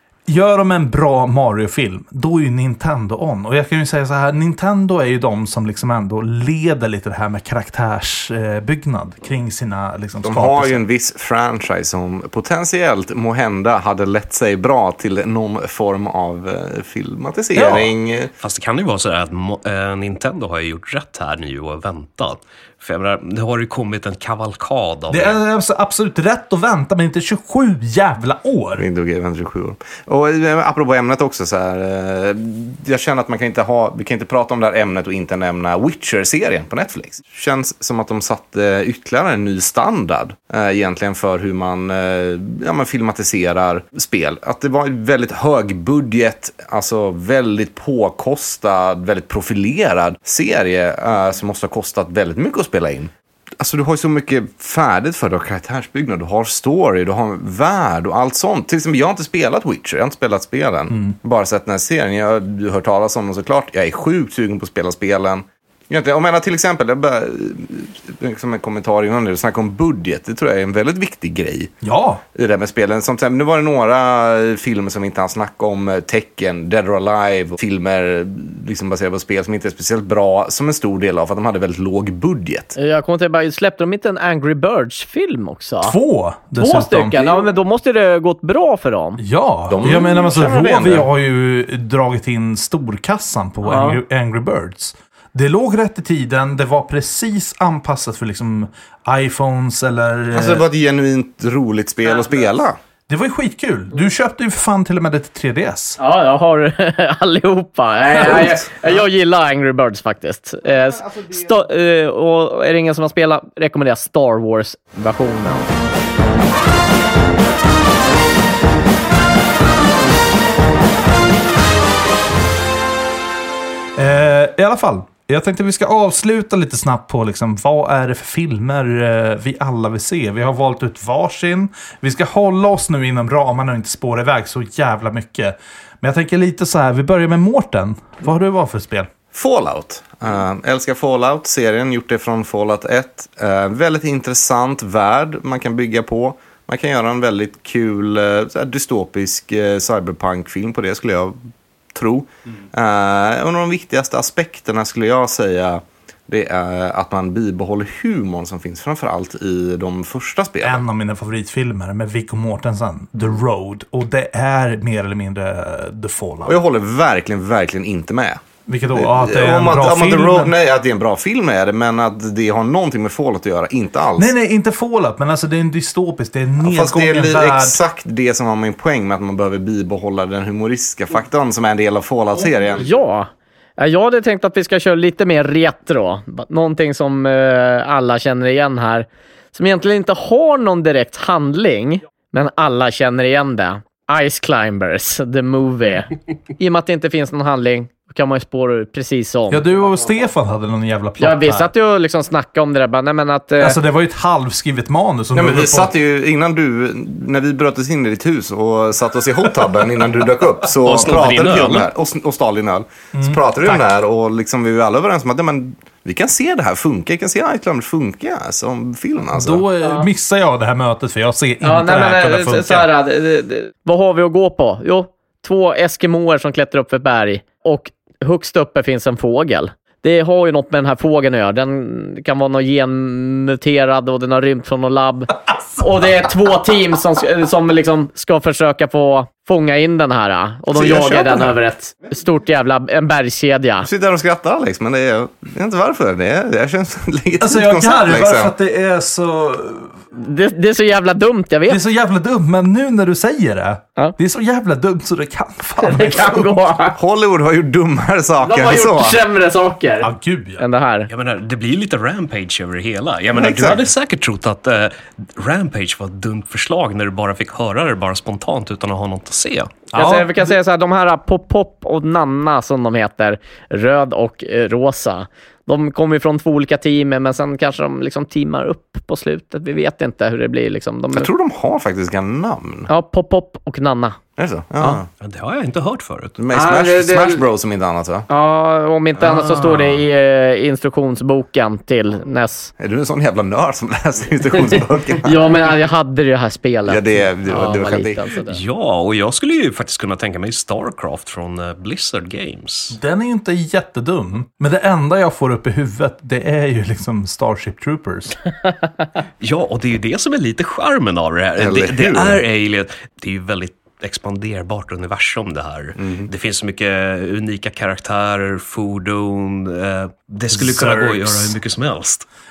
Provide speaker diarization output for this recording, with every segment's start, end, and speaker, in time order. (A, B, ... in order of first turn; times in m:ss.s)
0:00.3-0:10.8 A
0:10.2-0:18.3 B
0:17.6-0:17.9 A
0:18.4-0:25.4 C
0:25.1-0:28.8 A
0:28.8-1:11.7 B
1:00.9-1:01.2 A
1:11.8-1:12.2 A
1:12.3-1:22.8 B
1:22.8-1:26.0 D
1:25.8-1:27.3 A
1:26.6-1:29.2 D
1:29.2-1:40.6 A
1:29.7-1:31.1 B
1:33.6-1:34.0 D
1:40.3-1:42.8 B
1:43.1-1:46.0 A
1:46.0-1:55.7 D
1:51.0-1:51.3 B
2:04.0-2:19.1 A
2:19.3-2:31.4 B
2:31.9-2:40.8 B
2:40.6-2:46.6 A
2:46.5-2:54.3 B
2:48.7-2:50.5 A
2:54.2-2:57.8 A
2:56.6-3:02.9 B
3:02.8-3:19.7 D
3:19.5-3:21.7 A
3:21.2-3:23.8 D
3:23.6-3:25.9 A
3:25.3-3:39.6 B
3:30.8-3:31.9 C
3:33.1-3:33.9 A
3:39.3-3:42.9 A
3:39.8-3:40.1 D
3:41.6-4:03.9 D
4:00.7-4:01.5 B
4:03.8-4:08.5 B
4:07.4-4:10.0 A
4:10.1-4:11.8 D
4:11.7-4:16.8 A
4:15.8-4:17.0 D
4:17.0-4:19.2 B
4:18.4-4:21.1 D
4:20.0-4:20.6 A
4:21.1-4:29.8 C
4:23.4-4:23.8 B
4:29.9-4:30.6 A
4:29.9-4:41.3 D
4:41.1-4:42.9 B
4:42.9-4:44.2 D
4:44.4-4:45.1 B
4:45.2-4:46.4 C
4:46.4-4:48.3 B
4:46.5-4:47.4 D
4:48.3-4:52.7 D
4:49.2-4:50.0 C
4:52.8-4:55.5 B
4:55.2-4:58.6 D
4:56.9-4:58.2 B
4:58.5-5:03.0 C
5:02.9-5:08.4 A
5:09.4-5:22.3 C
5:11.6-5:12.4 B
5:16.0-5:16.3 B
5:20.5-5:21.6 A